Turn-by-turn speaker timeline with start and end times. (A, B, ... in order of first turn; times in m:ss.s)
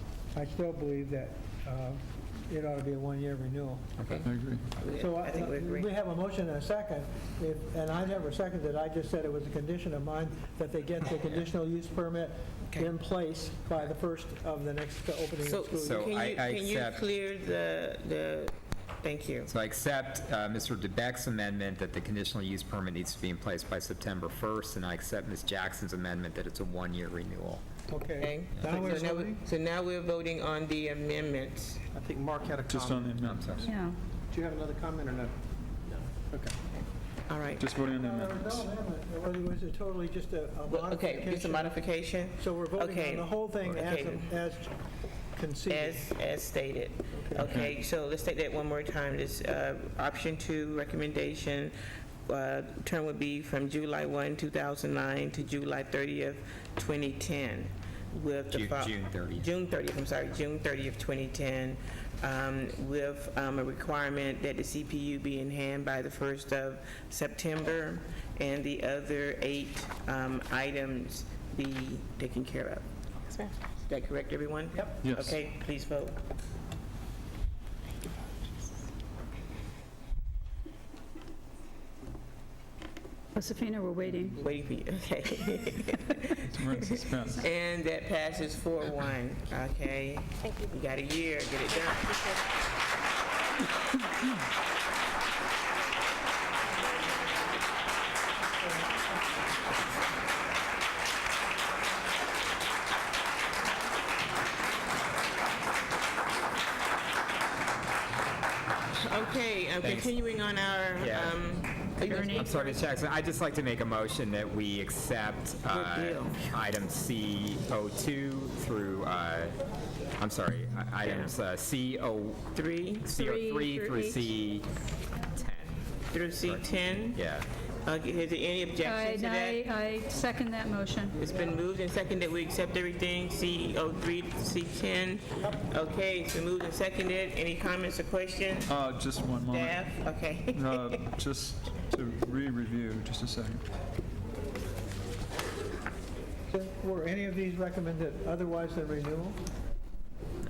0:00.3-0:04.0 A
0:04.0-0:04.3 B
0:04.2-0:04.7 C
0:04.8-0:05.9 D
0:04.9-0:16.0 A
0:15.4-0:19.5 D
0:15.8-0:17.0 B
0:19.5-0:27.6 B
0:27.9-0:29.4 A
0:28.2-0:31.8 D
0:31.9-0:33.2 E
0:32.6-0:33.7 C
0:33.2-0:33.7 B
0:33.6-0:34.0 F
0:34.3-0:35.4 E
0:36.1-0:36.6 E
0:37.3-0:37.7 D
0:37.6-0:38.7 C
0:37.9-0:44.7 A
0:40.7-0:44.3 D
0:45.3-0:46.1 A
0:45.7-1:16.2 D
0:47.2-0:47.6 A
0:47.4-0:47.7 C
0:58.5-0:59.5 B
1:15.0-1:15.4 C
1:23.3-1:24.4 F
1:24.3-1:32.4 D
1:26.3-1:27.4 C
1:48.9-1:52.8 D
1:49.8-1:50.2 B
1:51.0-1:51.4 B
1:52.0-1:52.7 F
1:52.1-1:59.6 B
1:55.7-1:56.4 D
2:00.2-2:02.5 B
2:01.0-2:01.3 D
2:02.6-2:03.1 D
2:03.0-2:04.7 B
2:03.1-2:04.3 F
2:05.4-2:05.7 B
2:06.1-2:07.2 D
2:06.4-2:07.4 B
2:07.8-2:09.7 D
2:08.8-2:11.2 F
2:11.2-2:18.7 D
2:18.6-2:23.6 C
2:19.4-2:21.0 D
2:26.5-2:29.4 A